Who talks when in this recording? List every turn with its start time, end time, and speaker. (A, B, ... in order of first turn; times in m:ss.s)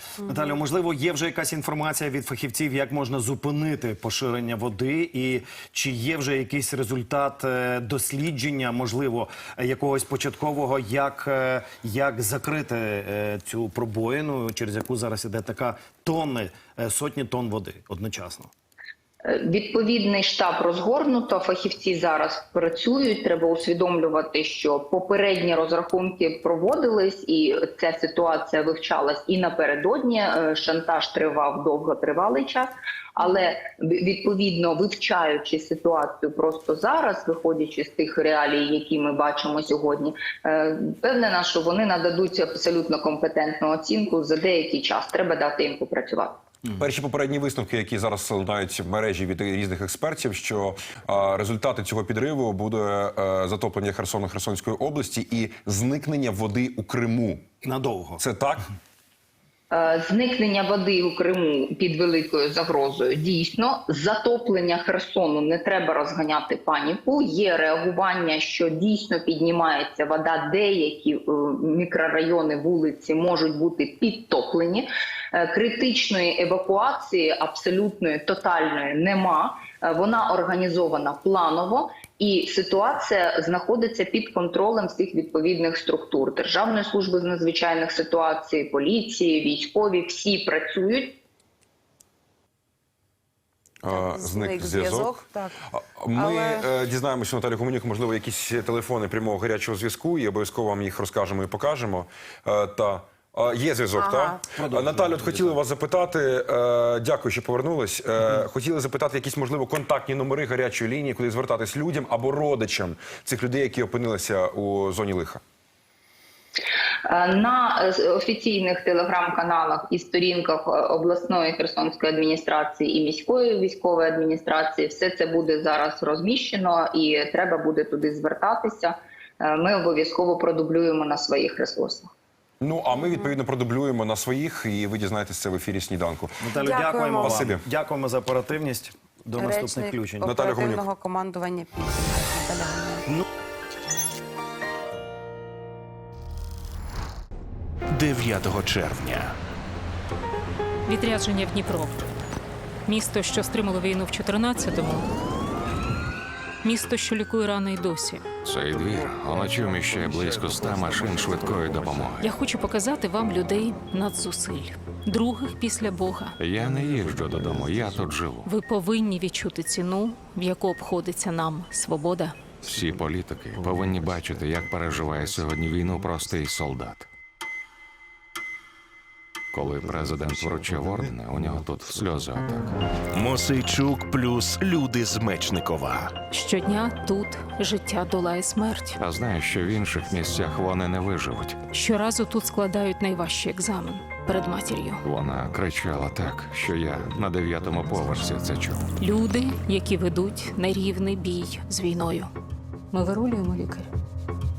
0:00.3-0:18.5 A
0:19.2-0:46.4 B
0:46.8-0:57.5 C
0:57.6-0:58.2 A
0:58.2-0:58.6 C
0:59.7-1:31.2 B
1:33.8-1:35.1 C
1:33.9-1:35.6 D
1:35.7-1:55.4 C
1:36.2-1:36.7 D
1:44.0-1:44.5 D
1:44.5-1:45.6 A
1:57.1-2:12.1 B
2:12.6-2:16.4 C
2:16.4-2:20.3 A
2:16.5-2:17.5 D
2:17.2-2:17.6 C
2:19.4-2:23.0 D
2:20.2-2:20.8 C
2:27.9-2:29.3 E
2:30.9-2:32.0 F
2:32.9-2:35.1 F
2:36.6-2:38.3 F
2:38.4-2:42.4 G
2:42.2-2:46.4 F
2:46.4-2:48.5 G
2:48.4-2:52.6 F
2:52.6-2:57.1 G
2:59.5-3:02.8 G
3:03.1-3:06.2 E
3:06.3-3:09.0 F
3:09.0-3:11.6 G
3:11.7-3:15.0 F
3:15.0-3:18.9 G
3:19.0-3:22.3 F
3:22.9-3:23.9 F